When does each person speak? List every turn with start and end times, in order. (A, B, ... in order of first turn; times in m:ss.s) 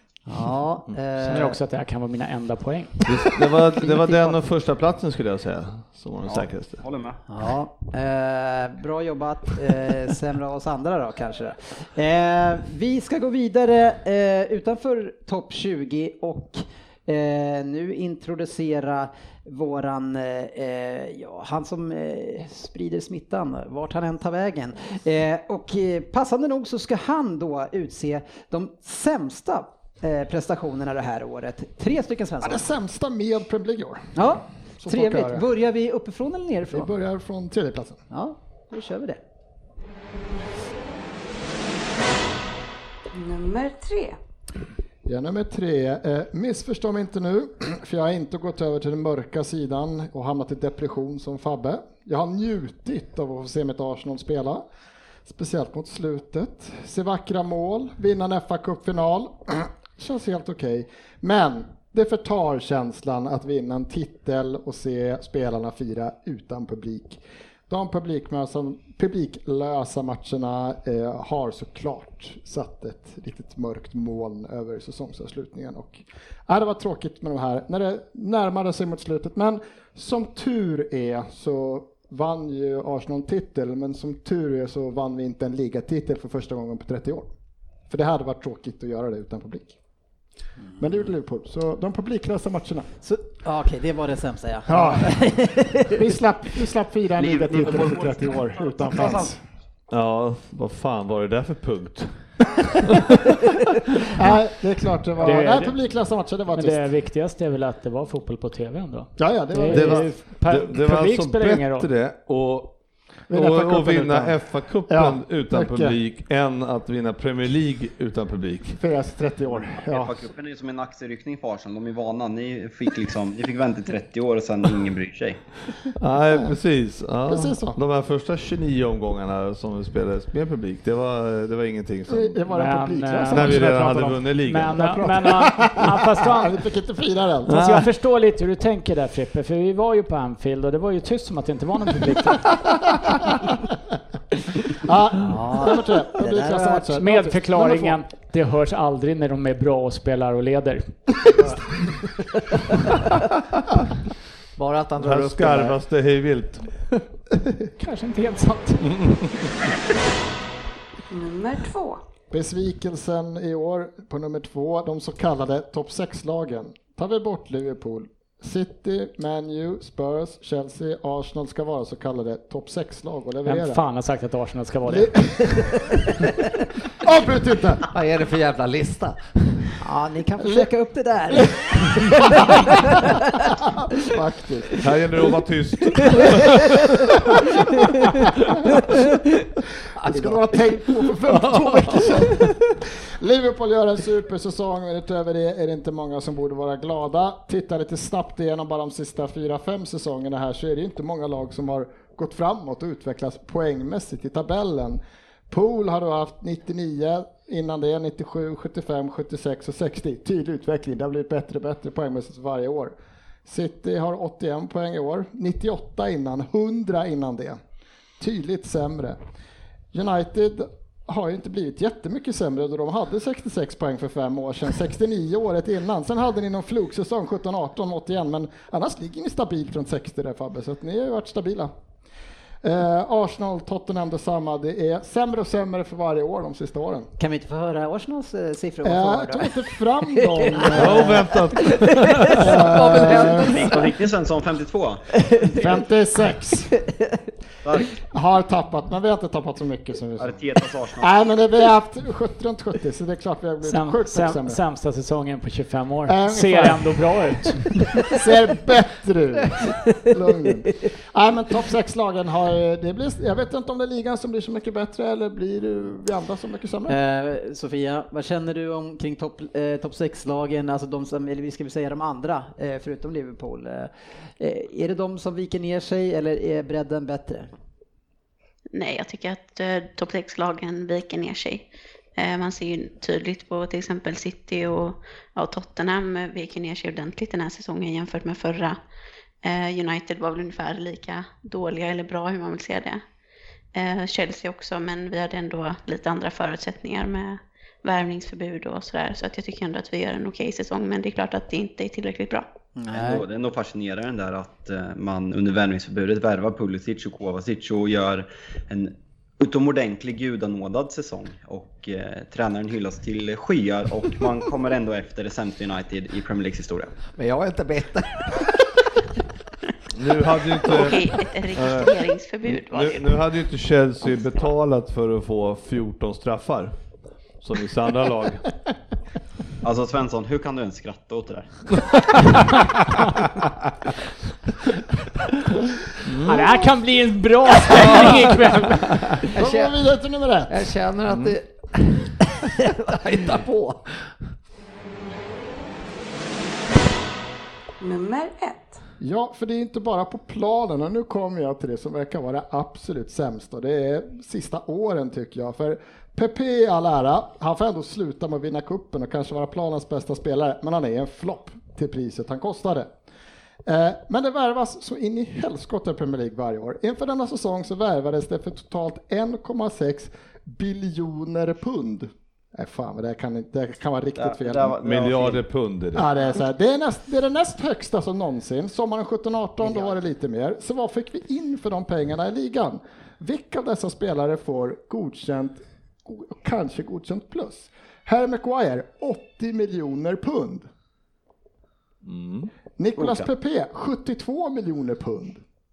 0:00.3-0:01.6 A
0:01.2-0:03.0 B
0:03.0-0:06.8 C
0:03.8-0:04.4 A
0:06.2-0:07.2 D
0:07.3-0:32.6 A
0:32.4-0:34.2 E
0:34.1-0:36.9 A
0:34.8-0:35.4 E
0:36.7-0:38.0 E
0:38.1-0:39.2 A
0:43.1-0:44.2 F
0:45.0-0:54.6 E
0:55.2-1:27.3 E
1:27.9-1:29.8 E
1:30.8-1:32.9 E
1:33.0-1:36.0 A
1:34.7-1:35.2 E
1:35.9-1:39.4 E
1:37.2-1:39.3 D
1:39.9-1:43.4 C
1:44.1-1:46.8 E
1:45.2-1:45.7 B
1:46.5-1:51.9 B
1:49.2-1:50.1 E
1:49.7-1:52.7 C
1:53.3-1:56.0 E
1:53.3-1:58.8 C
1:58.8-2:00.2 E
1:59.8-2:05.4 D
2:06.0-2:12.4 C
2:07.2-2:07.8 E
2:12.1-2:17.6 E
2:12.5-2:16.6 B
2:13.3-2:15.1 C
2:17.5-2:22.5 B
2:17.5-2:17.9 C
2:24.8-2:28.0 E
2:25.2-2:27.0 A
2:26.9-2:31.2 B
2:34.6-2:35.8 G
2:35.0-2:37.0 C
2:37.8-2:39.0 B
2:38.8-2:39.5 C
2:41.1-2:42.0 F
2:42.3-2:53.8 E
2:53.4-2:55.2 B
2:54.8-2:55.8 E
2:57.0-2:57.8 E
2:57.9-2:59.6 G
2:59.8-3:03.2 A
3:03.6-3:04.8 E
3:04.8-3:07.1 C
3:10.0-3:10.4 G
3:10.0-3:32.9 E
3:33.4-3:37.6 E
3:38.2-3:39.2 E
3:39.9-3:51.7 E
3:52.6-3:57.1 E
3:57.2-3:59.5 A
3:58.8-4:01.3 E
4:00.1-4:02.0 A
4:00.7-4:02.6 C
4:02.3-4:04.0 G
4:02.4-4:03.7 E
4:03.5-4:05.1 D
4:05.5-4:06.7 E
4:07.6-4:08.0 D
4:08.1-4:10.4 E
4:10.2-4:11.1 D
4:11.0-4:14.6 E
4:13.6-4:17.8 B
4:16.1-4:27.0 E
4:26.9-4:37.5 A
4:38.7-4:41.6 H
4:42.2-4:48.8 H
4:49.4-4:53.0 H
4:53.7-5:02.5 H
5:02.8-5:03.2 A
5:02.9-5:16.9 D
5:17.1-5:18.6 G
5:19.9-5:26.7 C
5:20.6-5:23.2 H
5:27.4-5:28.5 C
5:29.6-5:31.8 D
5:36.0-5:36.6 C
5:36.2-5:39.2 B
5:39.3-5:39.8 G
5:39.3-5:40.5 E
5:40.5-5:44.2 G
5:47.8-5:48.8 F
5:49.0-6:02.9 E
6:03.6-6:14.8 E
6:14.2-6:15.4 D
6:14.8-6:16.0 C
6:15.9-6:30.7 E
6:32.0-6:32.5 C
6:32.8-6:35.4 E
6:33.0-6:33.2 D